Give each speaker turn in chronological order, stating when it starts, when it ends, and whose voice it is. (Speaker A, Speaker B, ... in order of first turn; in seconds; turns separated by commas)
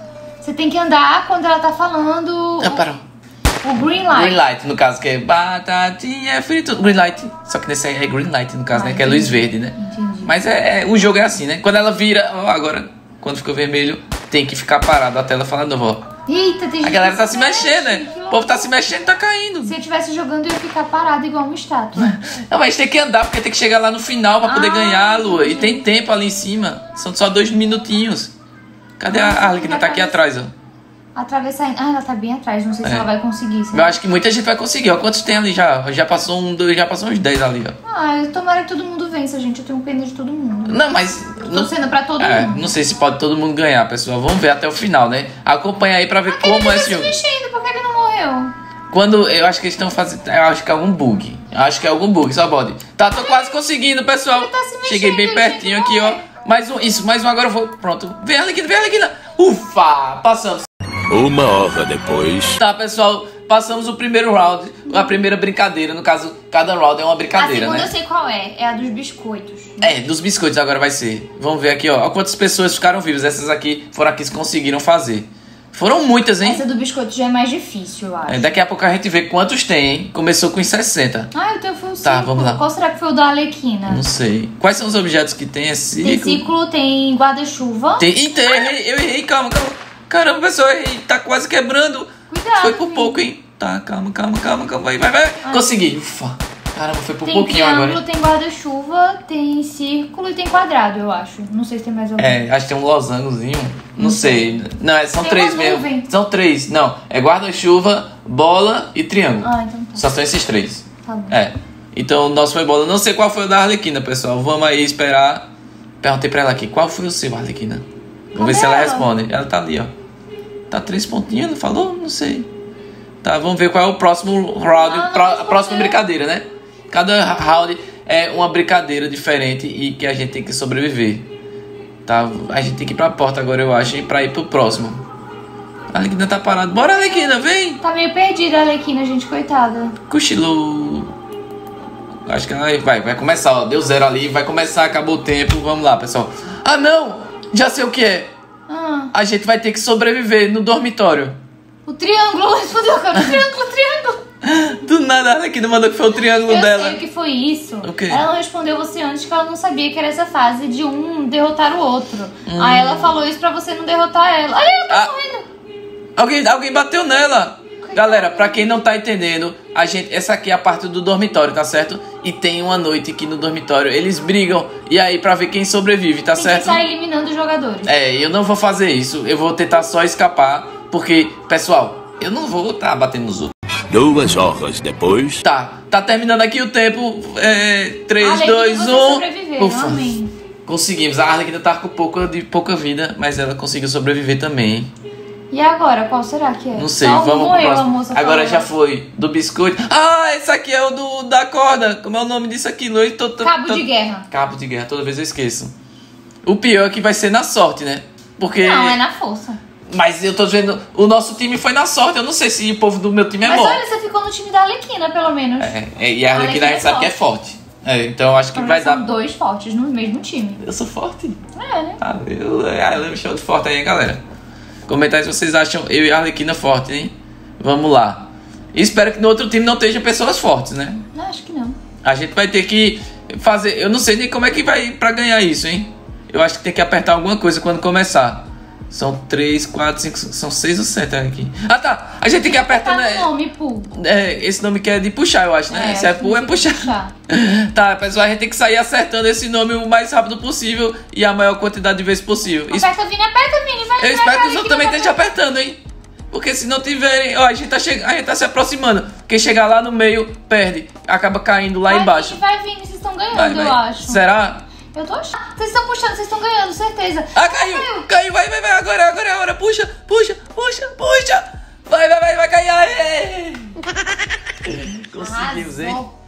Speaker A: 0.4-2.8, Speaker B: 2.6-3.0, Speaker A: 3.6-4.4, Speaker B: 4.0-16.0, Speaker A: 8.7-10.3, Speaker A: 16.3-18.7, Speaker B: 16.8-19.8, Speaker A: 19.6-22.2, Speaker B: 21.9-28.3, Speaker A: 24.4-25.8, Speaker B: 29.0-30.5, Speaker A: 29.1-30.2, Speaker A: 31.1-34.0, Speaker B: 33.7-37.8, Speaker A: 37.9-40.9, Speaker B: 40.7-47.2, Speaker A: 41.4-42.7, Speaker A: 46.3-48.5, Speaker B: 48.9-60.7, Speaker A: 53.1-53.5, Speaker A: 54.3-56.2, Speaker C: 61.1-62.6, Speaker B: 62.6-67.9, Speaker A: 67.4-69.9, Speaker B: 69.8-76.6, Speaker A: 76.4-78.6, Speaker B: 78.3-81.3, Speaker A: 81.3-84.0, Speaker B: 82.0-82.6, Speaker B: 83.9-86.5, Speaker A: 86.0-88.1, Speaker B: 88.0-98.0, Speaker A: 92.3-93.2, Speaker A: 95.4-95.8, Speaker A: 97.2-102.4, Speaker B: 102.2-115.5, Speaker A: 104.0-104.6, Speaker A: 105.2-106.1, Speaker A: 109.4-110.1, Speaker A: 111.0-111.4, Speaker B: 116.0-117.8, Speaker A: 118.3-119.1, Speaker B: 118.4-119.9, Speaker B: 120.7-122.5, Speaker B: 123.2-131.3, Speaker A: 124.7-126.0, Speaker B: 132.1-135.0, Speaker B: 135.9-137.8, Speaker A: 137.8-139.9, Speaker B: 140.1-141.1, Speaker B: 142.3-148.3, Speaker A: 148.7-149.1, Speaker B: 149.1-151.4, Speaker A: 151.9-154.2, Speaker B: 154.4-157.0, Speaker A: 156.2-165.5, Speaker B: 157.8-158.2, Speaker B: 162.5-163.2, Speaker B: 166.2-176.8, Speaker A: 167.8-168.8, Speaker A: 176.4-177.9, Speaker B: 177.8-183.5, Speaker C: 183.9-185.4, Speaker B: 185.4-194.9, Speaker A: 188.2-190.3, Speaker A: 195.5-198.7, Speaker B: 196.7-205.7, Speaker A: 203.4-204.3, Speaker B: 206.4-209.0, Speaker A: 208.6-209.6, Speaker B: 209.9-213.8, Speaker A: 213.4-215.8, Speaker B: 215.6-219.1, Speaker A: 216.3-217.2, Speaker A: 218.5-220.6, Speaker B: 220.6-221.4, Speaker A: 221.5-222.0, Speaker B: 222.0-224.2, Speaker B: 224.9-231.0, Speaker A: 231.1-231.8, Speaker B: 232.0-243.3, Speaker A: 242.4-243.9, Speaker B: 243.9-252.9, Speaker A: 245.7-247.1, Speaker A: 252.7-255.3, Speaker B: 254.0-255.8, Speaker B: 256.3-262.4, Speaker A: 261.9-264.2, Speaker B: 263.3-264.7, Speaker A: 264.9-268.1, Speaker B: 267.4-273.8, Speaker B: 274.6-276.0, Speaker A: 275.2-276.1